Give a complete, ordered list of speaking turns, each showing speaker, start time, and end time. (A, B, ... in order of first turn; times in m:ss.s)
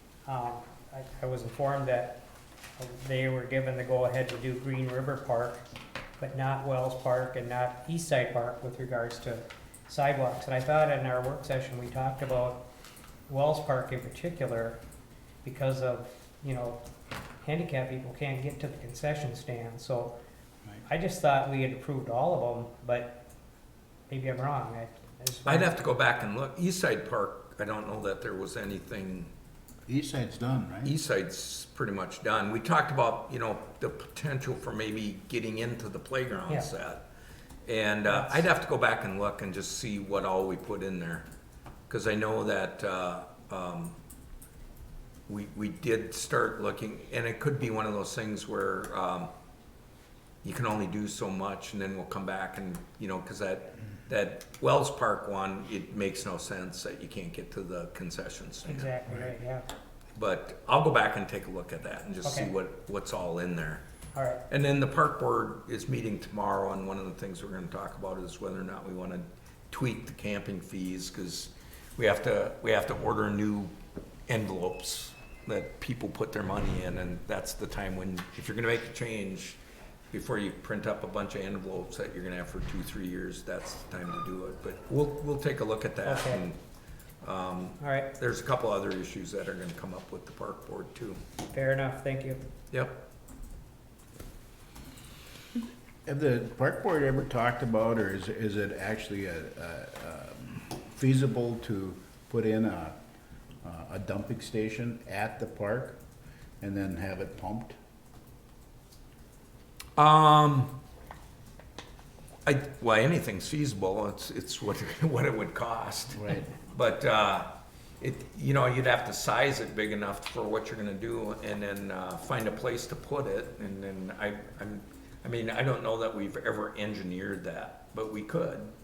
0:00.3-0:02.2 A
0:02.8-0:05.6 A
0:06.2-0:12.6 A
0:13.3-0:14.8 A
0:15.4-0:16.8 A
0:17.4-0:20.2 A
0:20.9-0:23.2 A
0:24.1-0:25.8 A
0:25.5-0:29.3 B
0:29.9-0:30.9 C
0:30.8-0:37.0 B
0:37.7-0:41.2 B
0:38.1-0:38.4 A
0:41.9-0:44.0 B
0:45.3-0:49.3 B
0:50.4-0:58.9 B
0:58.7-0:59.6 A
1:00.2-1:03.8 B
1:02.2-1:02.5 A
1:04.1-1:04.4 A
1:04.5-1:13.7 B
1:14.3-1:19.6 B
1:20.1-1:26.6 B
1:26.0-1:26.5 A
1:27.2-1:31.2 B
1:27.8-1:28.1 A
1:31.5-1:32.4 A
1:32.7-1:33.0 B
1:35.6-1:43.0 C
1:43.6-1:46.0 C
1:46.6-1:47.8 C
1:50.0-1:50.7 B
1:52.4-1:57.5 B
1:56.2-1:56.5 C
1:58.0-2:08.7 B